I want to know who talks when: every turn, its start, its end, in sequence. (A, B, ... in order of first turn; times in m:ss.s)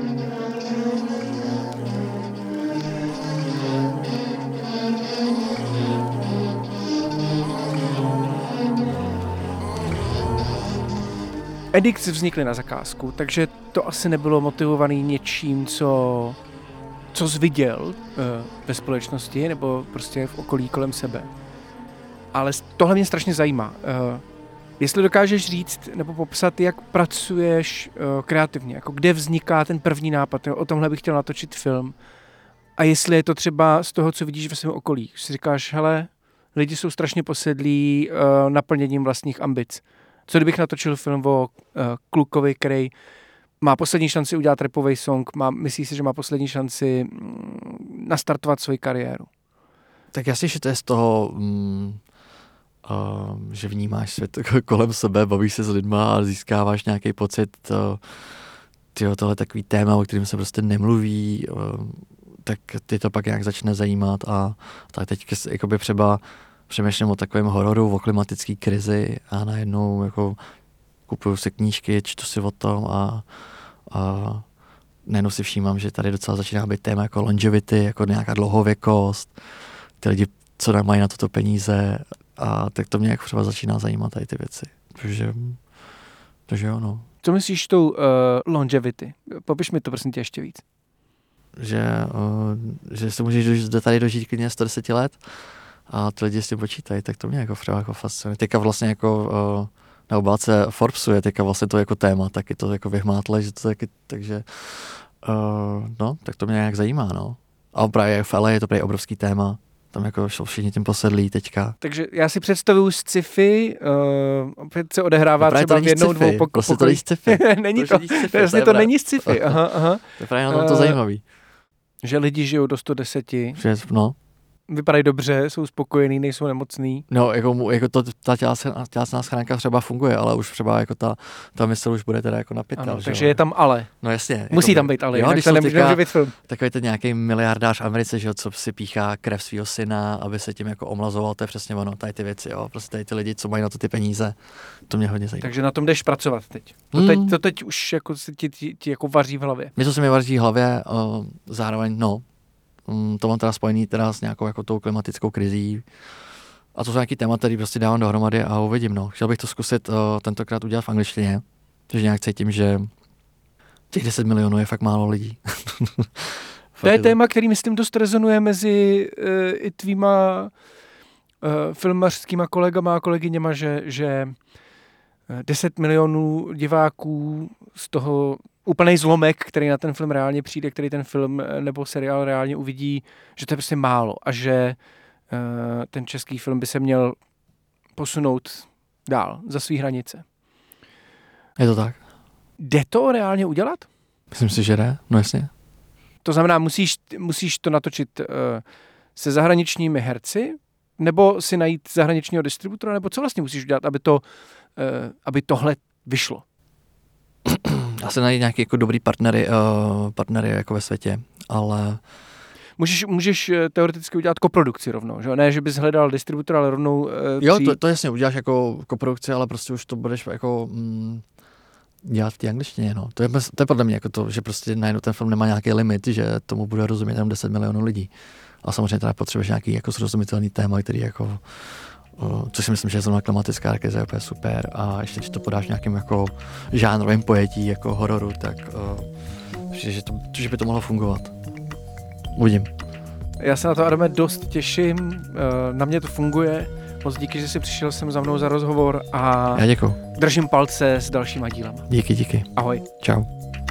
0:11.7-0:16.4 A
0:17.1-0:21.3 A
0:22.3-0:24.2 A
0:24.8-0:32.0 A
0:32.8-0:42.9 A
0:43.6-0:49.3 A
0:50.1-0:52.0 B
0:52.8-0:58.0 B
0:59.0-1:10.4 B
1:11.1-1:13.2 B
1:13.9-1:14.4 B
1:15.0-1:19.3 B
1:20.0-1:25.6 B
1:26.5-1:27.1 B
1:27.2-1:30.6 A
1:31.6-1:35.2 B
1:35.9-1:51.8 B
1:51.8-2:01.0 A
1:55.4-2:01.2 B
2:02.0-2:03.6 A
2:03.6-2:04.2 B
2:04.7-2:07.1 A
2:07.1-2:25.5 B
2:12.8-2:13.9 A
2:14.5-2:16.4 A
2:25.4-2:29.7 A
2:26.9-2:27.4 B
2:29.8-2:32.2 B
2:32.9-2:35.9 B
2:36.8-2:42.9 B
2:43.9-2:47.2 B
2:46.8-2:50.5 A
2:51.4-2:54.4 A
2:55.3-3:04.8 A
3:05.3-3:07.2 A
3:08.0-3:10.2 A
3:11.6-3:12.0 B
3:12.6-3:13.9 A
3:14.3-3:15.5 B
3:16.2-3:18.6 A
3:19.2-3:24.2 A
3:24.8-3:26.4 A
3:27.5-3:32.0 B
3:32.8-3:37.8 A
3:37.4-3:41.2 B
3:42.0-3:48.1 B
3:48.6-3:59.1 B
3:59.7-4:01.3 B
4:02.4-4:02.7 B
4:03.4-4:11.9 A
4:09.5-4:10.0 B
4:11.9-4:13.3 B
4:12.6-4:12.8 A